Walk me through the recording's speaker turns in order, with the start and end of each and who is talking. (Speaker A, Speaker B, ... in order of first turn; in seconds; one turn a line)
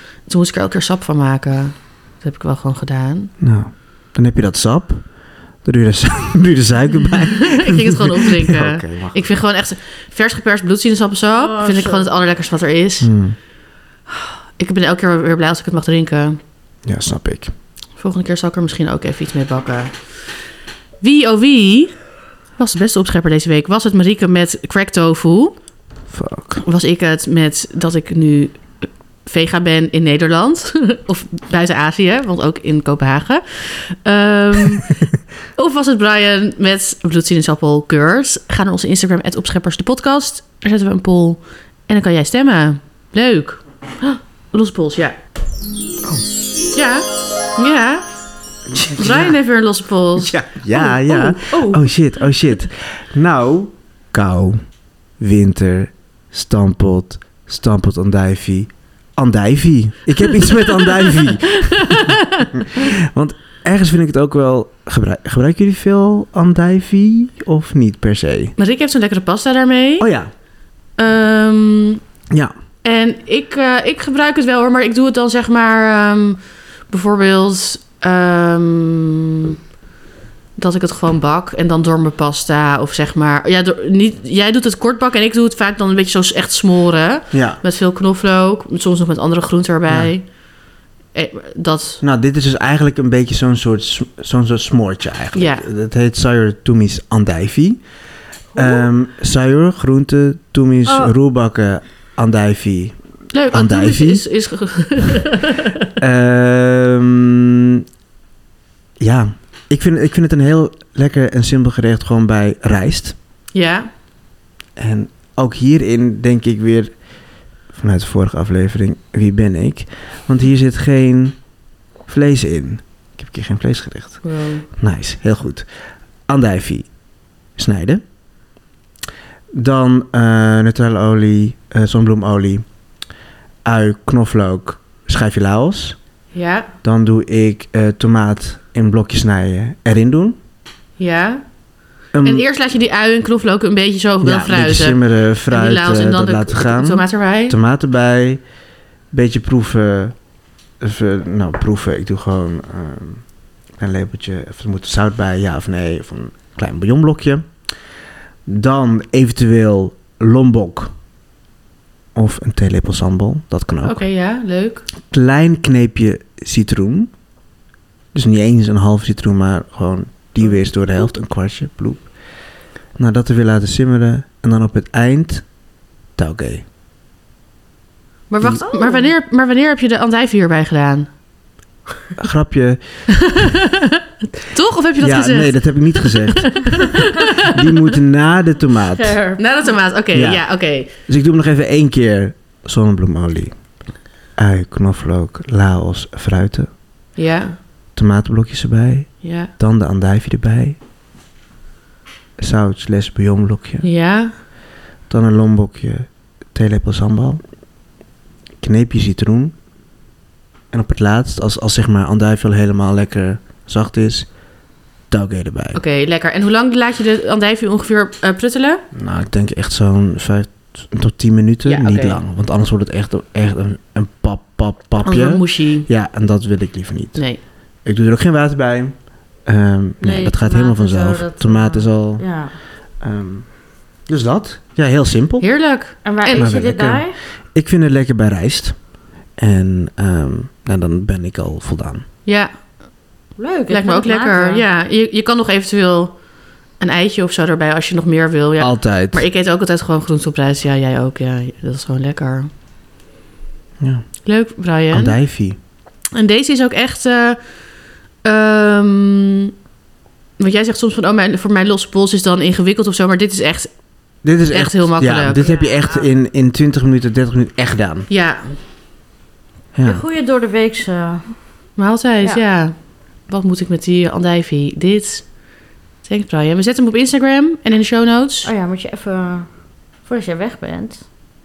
Speaker A: 0.3-3.3
Speaker B: 3.4-5.1
Speaker B: 5.6-9.2
Speaker A: 7.4-13.1
Speaker C: 11.3-12.1
Speaker B: 13.0-13.4
Speaker A: 14.6-16.4
Speaker B: 16.9-17.5
Speaker A: 18.0-20.2
Speaker A: 21.0-22.0
Speaker A: 22.6-25.6
Speaker B: 26.1-26.6
Speaker A: 26.6-35.0
Speaker A: 35.6-45.2
Speaker A: 46.7-47.0
Speaker A: 47.6-48.0
Speaker B: 48.7-49.4
Speaker A: 49.0-50.4
Speaker B: 50.2-54.6
Speaker A: 51.0-51.8
Speaker B: 55.2-68.5
Speaker A: 60.5-62.6
Speaker A: 68.6-70.1
Speaker B: 70.0-70.3
Speaker A: 71.0-72.0
Speaker A: 72.8-79.6
Speaker A: 80.6-90.3
Speaker B: 87.3-87.6
Speaker B: 89.9-90.1
Speaker A: 91.1-92.0
Speaker B: 92.0-97.8
Speaker A: 95.3-95.7
Speaker B: 98.5-103.0
Speaker C: 100.9-101.1
Speaker A: 103.3-105.9
Speaker B: 103.5-104.2
Speaker B: 106.0-107.8
Speaker B: 109.0-113.2
Speaker A: 113.5-113.9
Speaker B: 114.8-116.9
Speaker B: 117.7-121.4
Speaker B: 122.1-125.7
Speaker A: 124.2-124.7
Speaker B: 126.3-126.9
Speaker B: 127.6-128.0
Speaker B: 129.5-132.7
Speaker B: 133.7-136.0
Speaker A: 136.3-136.7
Speaker B: 136.8-140.4
Speaker A: 141.0-141.4
Speaker B: 142.1-142.5
Speaker A: 142.2-147.6
Speaker B: 144.2-148.4
Speaker B: 149.1-150.2
Speaker B: 150.8-153.2
Speaker B: 153.8-157.5
Speaker B: 158.5-160.9
Speaker B: 162.2-164.0
Speaker A: 163.8-164.8
Speaker B: 165.1-167.1
Speaker B: 168.1-172.1
Speaker B: 173.0-175.5
Speaker B: 176.2-176.7
Speaker A: 178.3-181.1
Speaker C: 178.6-179.1
Speaker B: 182.2-183.0
Speaker A: 183.2-187.8
Speaker B: 185.0-186.7
Speaker B: 187.4-189.2
Speaker C: 188.9-189.4
Speaker A: 189.4-190.9
Speaker B: 190.1-190.4
Speaker B: 191.1-193.6
Speaker B: 194.4-196.7
Speaker A: 197.2-197.6
Speaker B: 197.9-200.8
Speaker A: 199.2-199.5
Speaker B: 202.4-203.9
Speaker A: 203.8-204.3
Speaker B: 205.1-207.4
Speaker B: 208.6-209.6
Speaker B: 210.7-214.3
Speaker B: 215.1-215.8
Speaker A: 215.8-218.8
Speaker B: 218.9-227.2
Speaker A: 221.7-222.2
Speaker A: 225.0-225.9
Speaker B: 227.8-232.2
Speaker C: 230.0-232.6
Speaker B: 233.0-233.5
Speaker B: 234.1-235.5
Speaker A: 235.4-236.5
Speaker C: 236.0-237.2
Speaker B: 236.3-238.8
Speaker B: 239.4-242.1
Speaker C: 243.4-244.6
Speaker A: 243.7-246.2
Speaker A: 246.8-252.5
Speaker B: 248.6-249.3
Speaker B: 253.8-254.1
Speaker A: 254.2-255.2
Speaker B: 254.9-255.6
Speaker A: 256.1-257.4
Speaker A: 258.2-259.5
Speaker A: 260.4-263.7
Speaker B: 264.2-268.1
Speaker A: 264.5-266.1
Speaker A: 268.1-268.6
Speaker B: 269.8-270.0
Speaker C: 269.8-271.4
Speaker A: 271.8-275.4
Speaker A: 276.0-278.5
Speaker C: 278.4-279.5
Speaker C: 280.0-281.0